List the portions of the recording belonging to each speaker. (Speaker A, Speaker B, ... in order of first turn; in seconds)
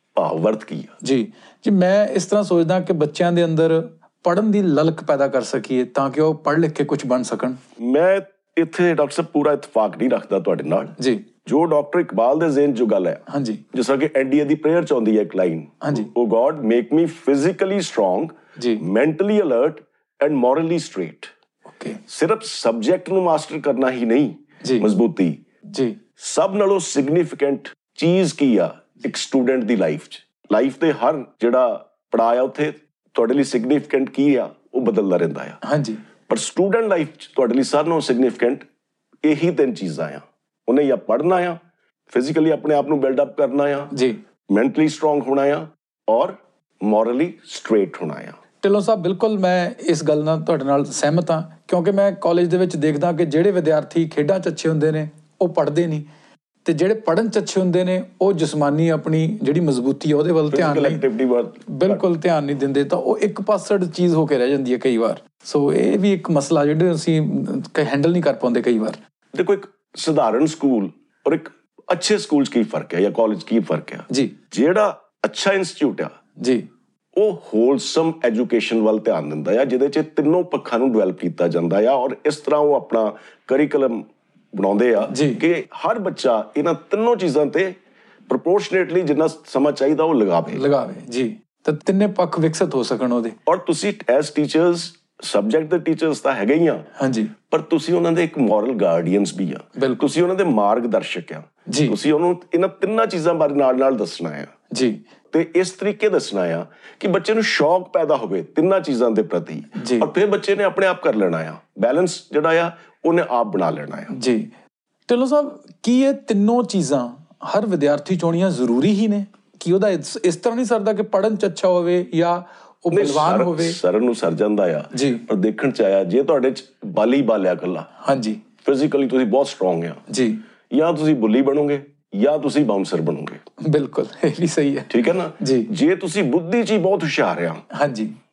Speaker A: 0.1-0.9, 7.8-21.3, 22.1-25.4, 26.2-35.6, 36.3-38.6, 39.2-41.6, 42.1-43.9, 44.5-48.4, 60.5-62.0, 69.3-76.1, 77.2-87.8, 88.3-90.7, 93.5-96.9, 97.5-104.5, 105.3-114.1, 122.9-127.9, 128.6-130.0, 130.7-133.4, 134.9-137.6
Speaker B: 1.0-7.6, 11.0-11.2, 13.3-13.6, 15.8-16.1, 18.6-18.8, 21.7-22.0, 25.7-26.0, 35.6-36.0, 43.9-44.2, 48.6-56.0, 56.6-61.0, 61.7-69.0, 74.1-74.3, 76.4-76.7, 85.1-85.4, 90.5-93.3, 97.0-97.3, 99.8-100.0, 101.7-102.0, 104.7-105.0, 109.7-110.1, 114.1-114.5, 115.1-123.8, 124.9-125.2, 128.0-128.4, 130.1-130.4, 133.6-135.7, 137.7-138.1